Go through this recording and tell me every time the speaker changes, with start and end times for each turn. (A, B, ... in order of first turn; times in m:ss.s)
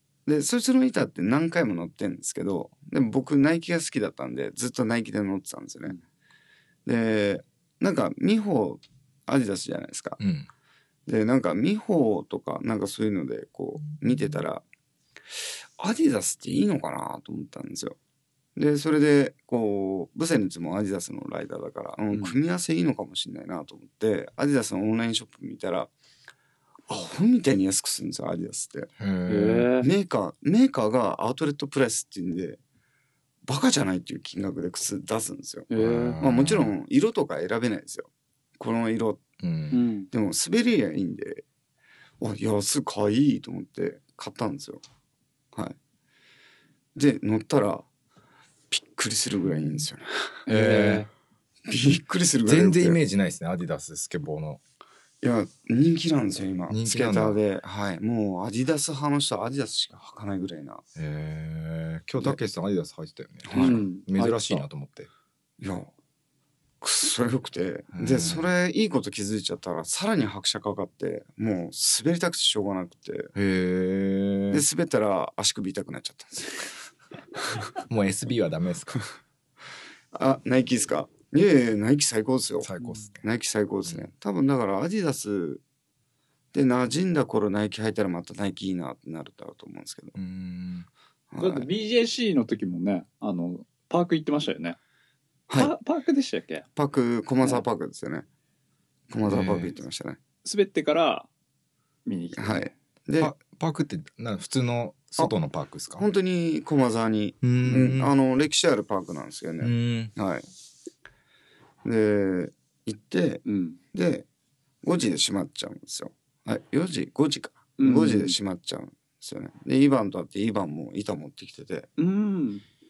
0:00.3-0:06.0 A
0:06.8-0:10.2 A
0:10.2-0:10.5 B
0:11.1-0:14.6 A
0:15.8-0:18.0 A
0:18.6-0:25.9 A
0:26.9-0:28.9 A
0:29.0-0:29.7 B
0:29.3-0:29.9 C
0:29.8-0:32.6 A
0:33.5-0:39.2 A
0:35.7-0:36.2 C
0:35.8-0:36.7 B
0:39.4-0:39.8 B
0:39.7-0:40.1 C
0:40.1-0:41.4 A
0:42.2-0:44.8 A
0:47.0-0:47.8 A
0:48.7-0:50.4 A
0:50.5-0:51.1 C
0:50.5-0:51.1 B
0:51.7-0:53.0 A
0:52.4-0:54.6 B
0:55.2-1:00.8 A
0:56.7-0:57.4 B
1:01.0-1:05.1 B
1:03.4-1:03.8 A
1:03.5-1:04.6 C
1:05.6-1:05.9 A
1:06.8-1:13.3 A
1:07.9-1:08.5 B
1:13.3-1:14.6 B
1:14.5-1:16.8 A
1:17.9-1:19.0 B
1:20.1-1:22.7 A
1:22.6-1:23.2 B
1:23.2-1:25.6 A
1:26.5-1:30.1 A
1:30.1-1:30.9 B
1:31.3-1:31.7 A
1:31.4-1:34.8 C
1:35.5-1:35.7 A
1:35.5-1:36.6 C
1:36.8-1:38.2 A
1:39.1-1:40.2 A
1:39.2-1:39.7 B
1:40.4-1:41.3 C
1:42.0-1:42.7 C
1:42.4-1:43.3 A
1:43.2-1:46.0 B
1:46.0-1:50.4 A
1:47.4-1:48.1 B
1:49.6-1:50.1 B
1:51.8-1:54.2 A
1:53.4-1:53.8 C
1:54.8-2:01.9 A
1:57.8-1:58.4 C
2:02.0-2:02.6 C